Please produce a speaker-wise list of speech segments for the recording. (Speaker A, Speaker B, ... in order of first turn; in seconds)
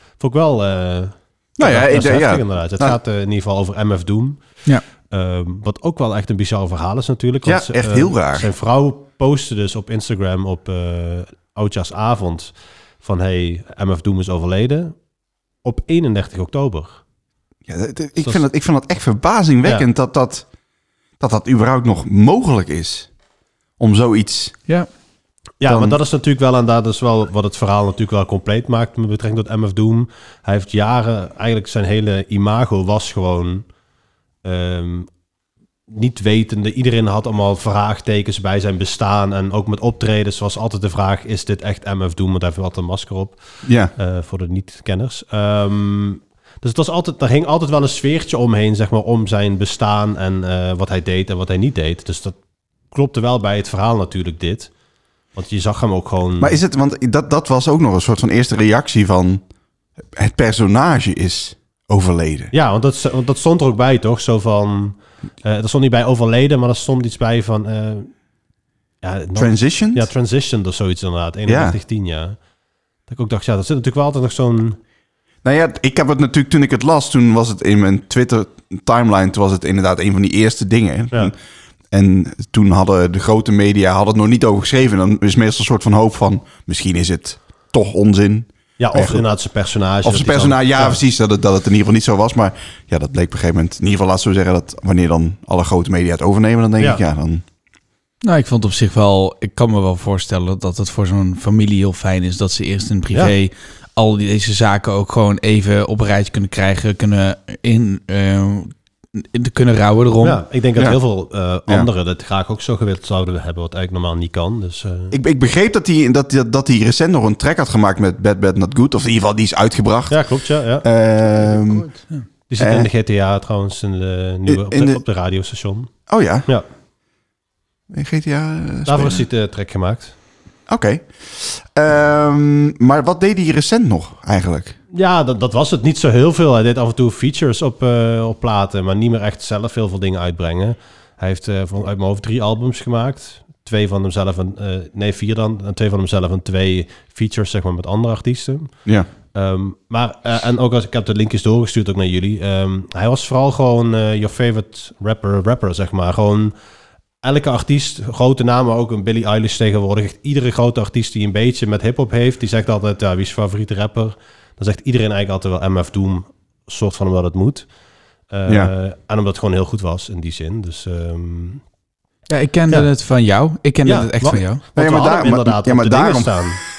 Speaker A: 0.2-4.4, 5.1-14.9, 15.6-17.0, 25.6-33.6, 34.4-35.1, 35.9-43.4, 44.0-52.3, 52.9-54.7, 55.3-56.6, 62.5-68.1, 69.0-72.4, 73.1-74.8, 88.8-91.0, 110.2-115.2, 120.1-120.8, 122.5-125.9, 128.8-130.1, 134.9-148.8, 149.3-156.5, 157.2-167.7, 168.3-171.6, 173.8-176.6
Speaker B: 1.6-3.0, 7.4-8.5, 17.7-20.4, 21.2-23.1, 23.8-24.6, 25.6-26.0, 43.6-43.9, 56.4-59.4, 60.1-62.5, 69.4-70.1, 71.5-71.8, 75.4-81.3, 81.9-89.2, 90.0-97.4, 115.1-120.2, 120.8-121.9, 122.6-122.9, 124.5-125.0, 126.1-126.5, 127.9-129.2, 130.7-134.8, 168.5-168.7, 174.8-176.4
Speaker C: 98.2-110.4, 172.3-174.6